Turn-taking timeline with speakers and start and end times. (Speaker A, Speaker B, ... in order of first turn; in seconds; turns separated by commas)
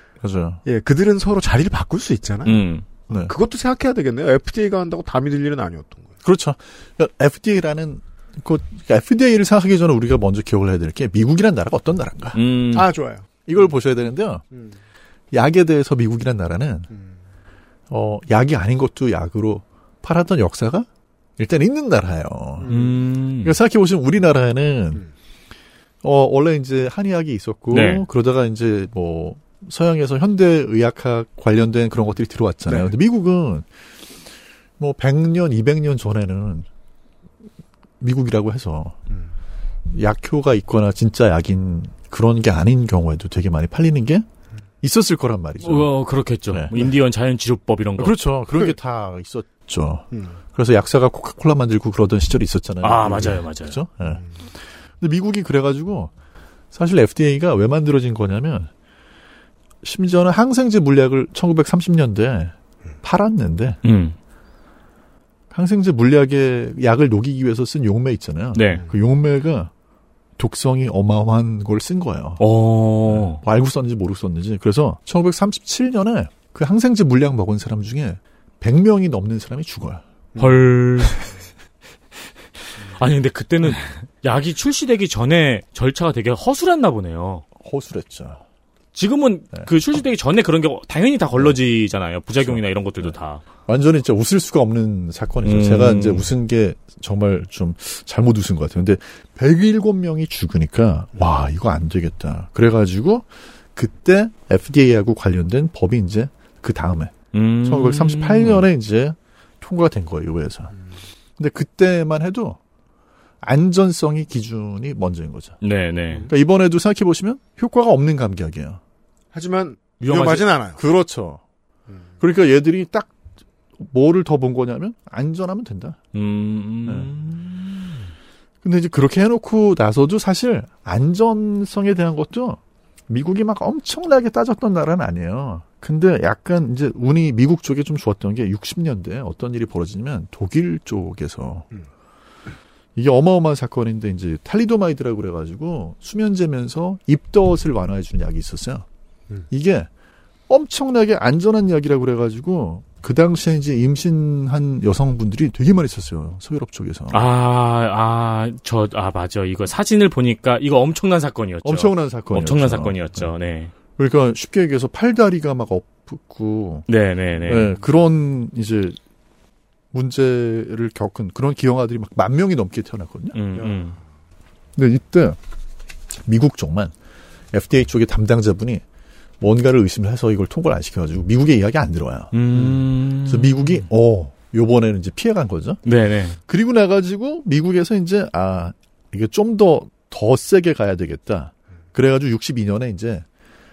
Speaker A: 0.2-0.6, Speaker B: 0.6-6.1, Speaker C: 2.4-2.8, Speaker A: 6.2-12.4, Speaker C: 12.3-12.9, Speaker B: 12.7-13.7, Speaker A: 13.4-14.4, Speaker A: 15.3-16.9, Speaker A: 17.9-20.9, Speaker A: 21.4-22.7, Speaker B: 22.6-23.0, Speaker C: 22.6-23.5, Speaker A: 23.4-25.0, Speaker A: 26.0-33.7, Speaker C: 27.7-28.0, Speaker A: 34.8-36.7, Speaker A: 38.0-39.0, Speaker A: 39.9-44.2, Speaker A: 44.8-45.9, Speaker C: 45.6-48.2, Speaker A: 46.5-46.9, Speaker A: 48.0-54.2, Speaker B: 50.1-50.4, Speaker C: 52.8-53.8, Speaker A: 55.0-56.1, Speaker A: 56.7-58.7, Speaker A: 59.8-63.8, Speaker C: 63.8-64.2, Speaker A: 65.5-69.7, Speaker C: 68.5-68.8, Speaker A: 70.4-72.4, Speaker C: 72.4-73.4, Speaker A: 73.1-80.0, Speaker B: 80.3-80.6, Speaker C: 80.4-81.2, Speaker C: 82.9-87.4, Speaker A: 87.6-88.4, Speaker C: 88.9-93.4, Speaker A: 92.4-93.1, Speaker A: 93.7-110.7, Speaker C: 95.4-96.3, Speaker C: 107.3-108.7, Speaker A: 111.4-112.6, Speaker A: 113.4-115.6, Speaker C: 115.6-116.3, Speaker A: 116.3-118.8, Speaker B: 119.3-120.8, Speaker C: 120.0-120.5, Speaker A: 120.8-121.4, Speaker A: 122.2-123.1, Speaker A: 123.8-126.0, Speaker C: 126.1-128.0, Speaker A: 126.8-127.1, Speaker A: 128.6-141.7, Speaker A: 142.9-148.8, Speaker A: 149.5-149.9, Speaker A: 150.5-157.3, Speaker C: 157.1-163.7, Speaker A: 161.6-163.3, Speaker A: 163.9-166.9, Speaker C: 166.9-167.7, Speaker A: 167.4-169.0, Speaker A: 169.9-173.4, Speaker C: 173.3-174.0, Speaker B: 173.6-174.0, Speaker A: 174.8-175.4, Speaker A: 176.2-176.9, Speaker A: 177.5-178.8, Speaker A: 179.4-182.4, Speaker C: 182.3-183.8, Speaker B: 182.5-182.8, Speaker A: 183.2-185.8, Speaker C: 185.8-186.4, Speaker A: 186.5-193.2